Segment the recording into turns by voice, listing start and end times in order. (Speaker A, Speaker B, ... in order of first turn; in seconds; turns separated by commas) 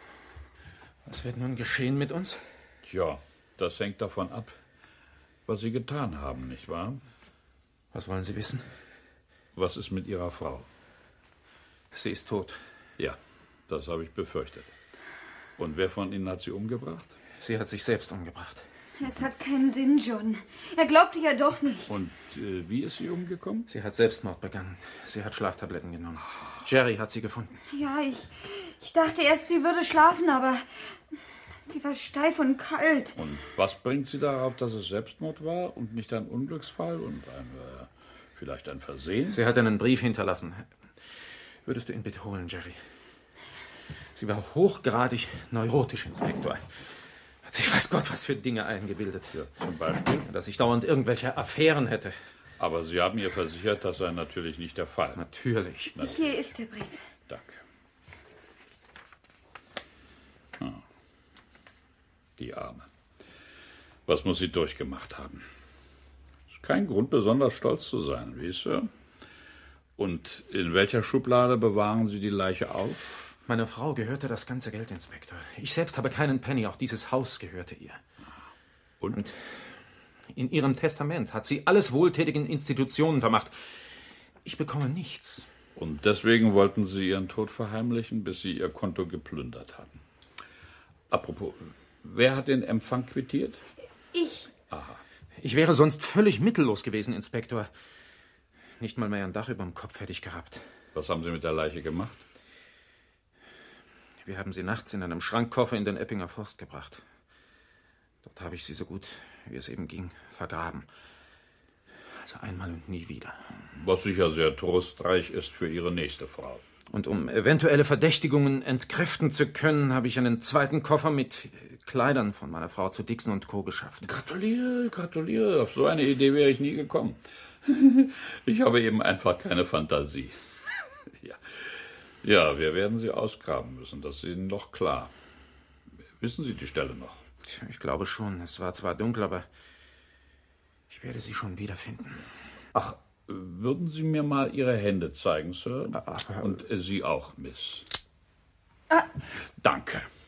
Speaker A: 1.1-2.5, Speaker B: 2.9-4.6, Speaker B: 5.5-7.0, Speaker A: 7.9-8.8, Speaker B: 9.6-10.7, Speaker A: 11.9-12.6, Speaker B: 13.0-14.7, Speaker B: 15.6-17.2, Speaker A: 17.4-18.6, Speaker C: 19.0-22.0, Speaker B: 21.9-23.7, Speaker A: 23.7-27.5, Speaker C: 27.7-30.6, Speaker C: 31.6-33.2, Speaker B: 33.2-39.4, Speaker A: 39.3-40.7, Speaker A: 41.6-42.8, Speaker A: 44.1-46.8, Speaker A: 47.5-49.4, Speaker B: 49.3-50.2, Speaker A: 50.2-52.2, Speaker B: 52.6-55.2, Speaker A: 55.2-56.0, Speaker B: 56.0-56.4, Speaker C: 56.0-57.0, Speaker B: 57.3-57.6, Speaker B: 60.6-60.8, Speaker B: 62.4-62.9, Speaker B: 64.1-65.5, Speaker B: 66.5-68.9, Speaker B: 70.0-73.3, Speaker A: 73.5-78.0, Speaker B: 79.0-79.2, Speaker A: 79.1-79.4, Speaker A: 80.3-83.5, Speaker A: 84.5-85.5, Speaker B: 85.8-90.0, Speaker B: 91.1-93.6, Speaker C: 94.1-94.5, Speaker B: 94.7-95.0, Speaker A: 95.4-97.7, Speaker A: 98.8-100.7, Speaker B: 101.0-102.2, Speaker A: 104.2-107.0, Speaker A: 108.2-110.9, Speaker A: 112.1-113.5, Speaker B: 113.7-116.6, Speaker A: 116.9-124.1, Speaker B: 124.0-130.4, Speaker B: 131.0-135.1, Speaker B: 136.2-137.2, Speaker A: 137.4-139.5, Speaker A: 140.9-142.2, Speaker B: 142.7-147.9, Speaker A: 145.9-146.6, Speaker B: 149.6-150.1